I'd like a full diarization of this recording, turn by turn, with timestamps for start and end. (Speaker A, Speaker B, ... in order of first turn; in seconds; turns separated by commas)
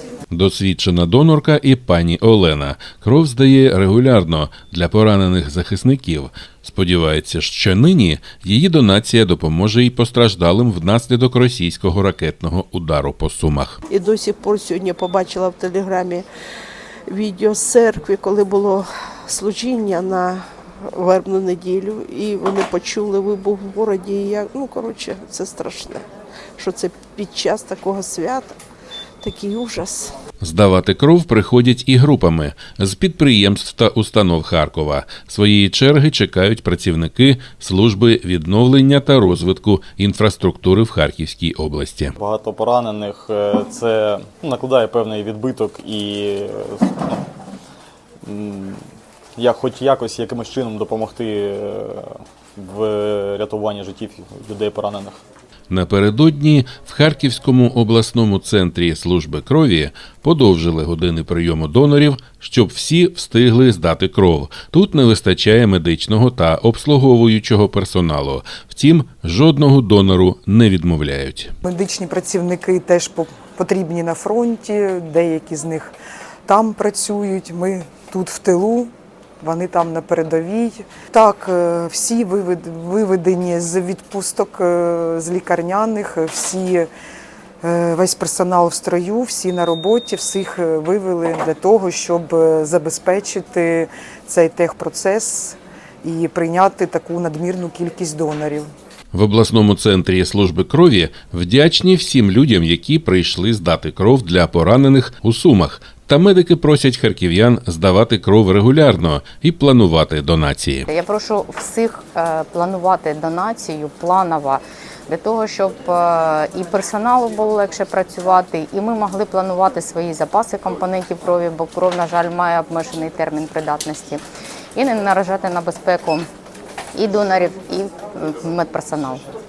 Speaker A: 0.3-13.8, Speaker B: 13.9-16.3, Speaker B: 17.1-26.0, Speaker B: 26.6-28.6, Speaker B: 29.2-30.1, Speaker A: 30.4-42.1, Speaker C: 42.2-47.2, Speaker C: 48.2-48.8, Speaker C: 49.4-55.2, Speaker A: 55.7-71.5, Speaker D: 71.6-75.9, Speaker D: 76.5-86.9, Speaker D: 87.6-98.7, Speaker A: 99.1-110.9, Speaker E: 110.9-124.2, Speaker E: 124.8-126.3, Speaker E: 126.9-129.2